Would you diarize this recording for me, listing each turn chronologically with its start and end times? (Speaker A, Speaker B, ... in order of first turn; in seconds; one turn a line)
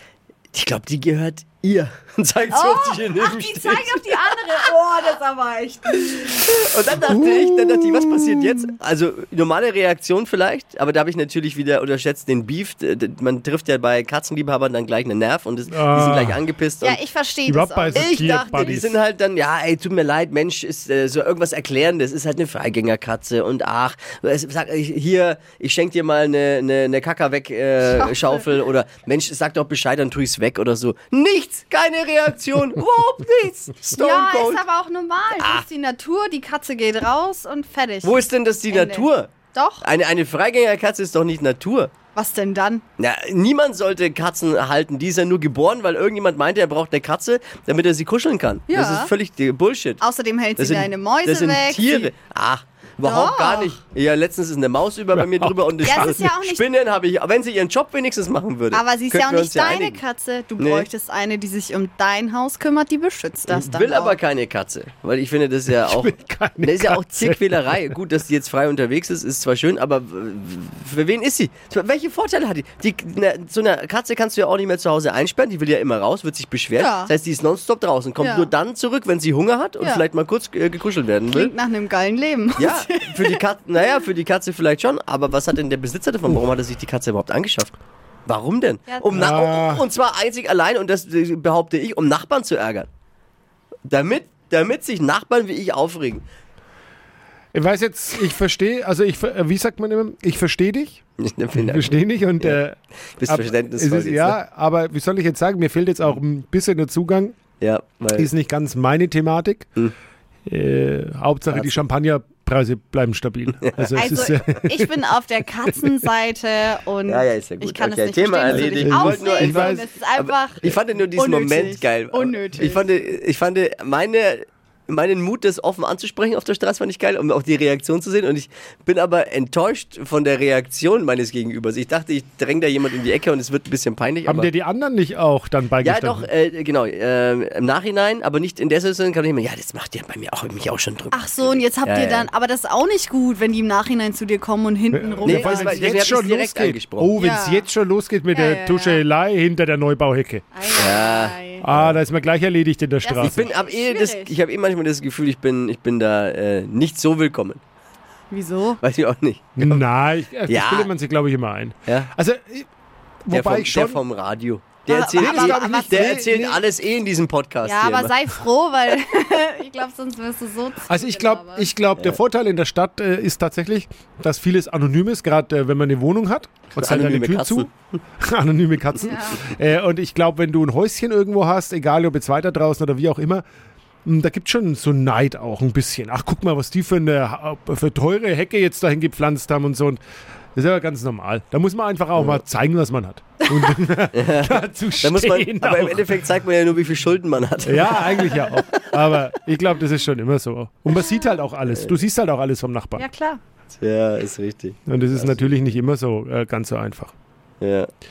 Speaker A: 0.5-4.7
Speaker B: 2.5-6.3
Speaker A: 5.9-17.0
Speaker C: 7.0-8.7
Speaker C: 15.7-16.4
Speaker B: 16.8-18.8
Speaker C: 17.5-19.0
Speaker A: 17.9-34.6
Speaker B: 27.9-28.4
Speaker B: 34.0-39.8
Speaker A: 35.4-35.6
Speaker A: 38.0-39.3
Speaker A: 39.8-41.9
Speaker B: 42.1-42.8
Speaker A: 43.0-50.0
Speaker B: 48.7-49.1
Speaker B: 50.0-52.1
Speaker A: 50.6-60.0
Speaker B: 53.0-53.8
Speaker C: 55.1-56.2
Speaker B: 55.8-56.6
Speaker B: 58.7-64.2
Speaker A: 60.6-60.9
Speaker A: 63.5-81.5
Speaker C: 65.7-67.9
Speaker B: 76.7-77.1
Speaker B: 78.2-78.5
Speaker B: 81.3-83.4
Speaker A: 82.6-87.7
Speaker A: 88.3-92.9
Speaker C: 89.1-89.8
Speaker A: 93.9-96.2
Speaker C: 97.5-101.0
Speaker A: 101.2-102.6
Speaker C: 101.5-107.4
Speaker A: 103.2-104.4
Speaker A: 107.6-108.3
Speaker C: 108.2-109.7
Speaker C: 110.5-115.0
Speaker A: 111.5-111.8
Speaker A: 113.6-113.9
Speaker B: 113.9-122.9
Speaker A: 117.1-134.5
Speaker C: 118.5-119.9
Speaker C: 134.2-136.3
Speaker A: 135.8-142.3
Speaker B: 141.1-145.8
Speaker C: 144.9-150.4
Speaker A: 145.2-147.1
Speaker B: 147.2-147.7
Speaker B: 148.3-149.0
Speaker B: 150.5-151.7
Speaker A: 150.8-152.0
Speaker C: 151.6-153.5
Speaker B: 153.0-154.3
Speaker A: 153.2-157.6
Speaker B: 158.3-158.8
Speaker A: 158.8-159.8
Speaker C: 159.6-162.7
Speaker A: 160.5-160.9
Speaker A: 161.9-162.1
Speaker C: 163.2-164.0
Speaker A: 163.3-168.1
Speaker B: 164.9-166.3
Speaker C: 165.2-166.6
Speaker B: 167.6-171.7
Speaker C: 170.9-177.7
Speaker A: 176.8-177.7
Speaker C: 178.2-183.4
Speaker B: 178.9-179.5
Speaker C: 184.0-190.0
Speaker C: 190.5-196.2
Speaker A: 194.1-198.5
Speaker C: 197.6-203.0
Speaker A: 201.7-202.0
Speaker B: 202.9-203.4
Speaker A: 203.8-205.5
Speaker C: 204.9-207.1
Speaker A: 207.6-207.9